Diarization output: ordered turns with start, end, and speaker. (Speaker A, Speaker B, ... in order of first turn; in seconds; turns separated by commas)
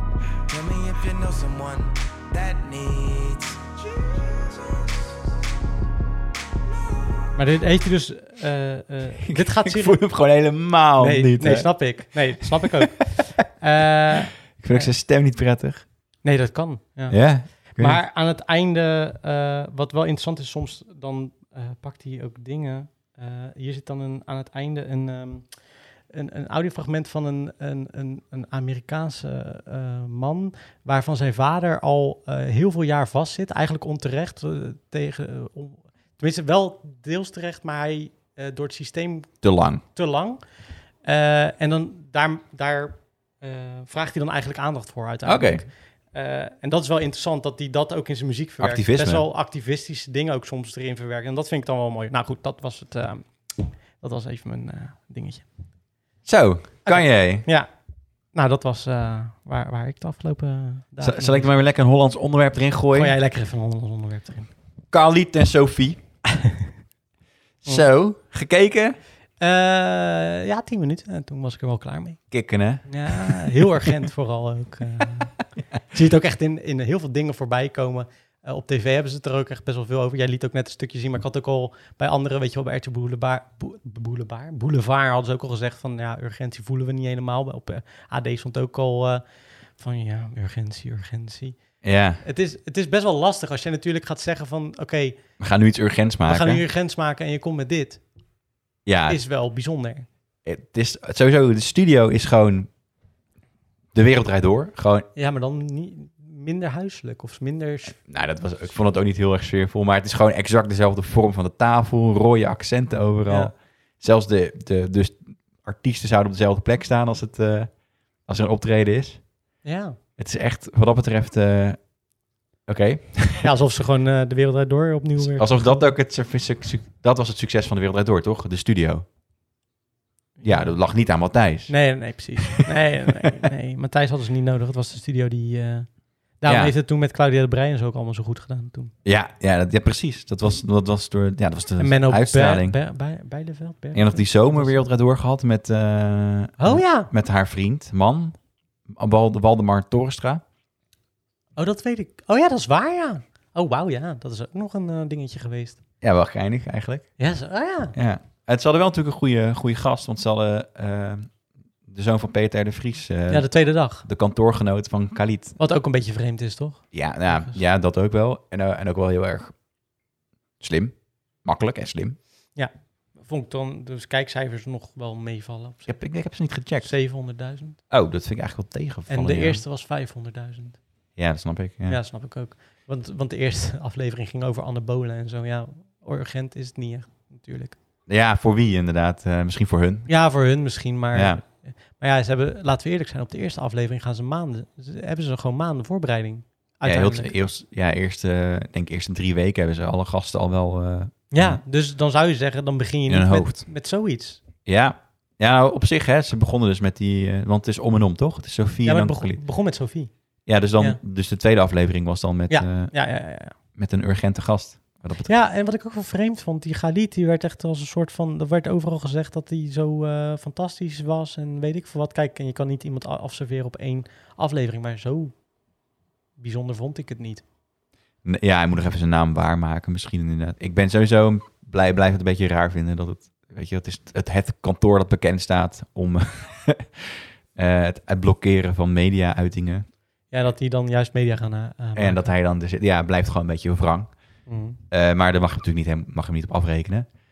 Speaker A: 0.5-5.1, Speaker B: 7.3-10.0, Speaker C: 9.2-12.8, Speaker B: 11.0-14.9, Speaker C: 14.6-15.8, Speaker B: 16.2-25.6, Speaker C: 17.1-18.0, Speaker B: 26.1-39.4, Speaker C: 39.4-39.8, Speaker B: 39.9-40.4, Speaker B: 41.0-55.5, Speaker C: 45.2-45.6, Speaker C: 48.6-49.3, Speaker C: 56.2-57.5, Speaker B: 56.9-57.7, Speaker B: 58.3-61.5, Speaker C: 61.0-63.2, Speaker B: 62.9-64.5, Speaker C: 64.9-66.0, Speaker C: 67.7-69.0, Speaker B: 69.4-72.2, Speaker C: 72.3-73.9, Speaker B: 72.8-75.4, Speaker B: 75.9-89.2, Speaker B: 89.8-91.6, Speaker C: 91.8-92.2, Speaker B: 92.2-95.2, Speaker C: 95.4-96.6, Speaker B: 96.3-98.0, Speaker C: 98.9-99.2, Speaker B: 99.1-100.1, Speaker C: 100.5-102.7, Speaker C: 103.9-105.1, Speaker B: 105.2-108.0, Speaker C: 107.9-119.2, Speaker B: 113.3-113.5, Speaker B: 119.6-120.0, Speaker C: 120.2-121.8, Speaker C: 122.7-123.5, Speaker B: 123.4-125.9, Speaker C: 125.2-129.1, Speaker B: 130.4-130.8, Speaker C: 130.4-132.7, Speaker B: 131.7-138.9, Speaker C: 136.5-136.7, Speaker C: 139.1-142.8, Speaker B: 141.8-144.9, Speaker C: 143.9-150.4, Speaker B: 146.6-147.1, Speaker B: 151.6-155.8, Speaker C: 156.0-157.1, Speaker B: 157.2-157.9, Speaker C: 157.9-161.3, Speaker C: 161.9-165.6, Speaker B: 163.3-164.1, Speaker B: 165.6-167.6, Speaker C: 166.9-169.5, Speaker C: 170.6-172.2, Speaker B: 172.6-175.9, Speaker C: 175.9-176.9, Speaker B: 176.8-177.8, Speaker C: 177.9-179.6, Speaker B: 179.1-180.8, Speaker C: 181.2-182.0, Speaker B: 181.9-187.8, Speaker C: 188.1-190.1, Speaker B: 190.1-197.4, Speaker C: 191.1-191.4, Speaker C: 196.8-201.6, Speaker B: 201.3-204.4, Speaker C: 203.1-203.7, Speaker C: 204.7-209.4, Speaker B: 208.8-210.1, Speaker C: 210.5-212.9, Speaker B: 212.5-213.6, Speaker C: 213.7-215.3, Speaker B: 215.2-225.4, Speaker B: 226.4-227.4, Speaker C: 228.2-239.9, Speaker B: 240.3-242.3, Speaker C: 242.0-244.2, Speaker B: 244.5-244.8, Speaker C: 244.9-247.1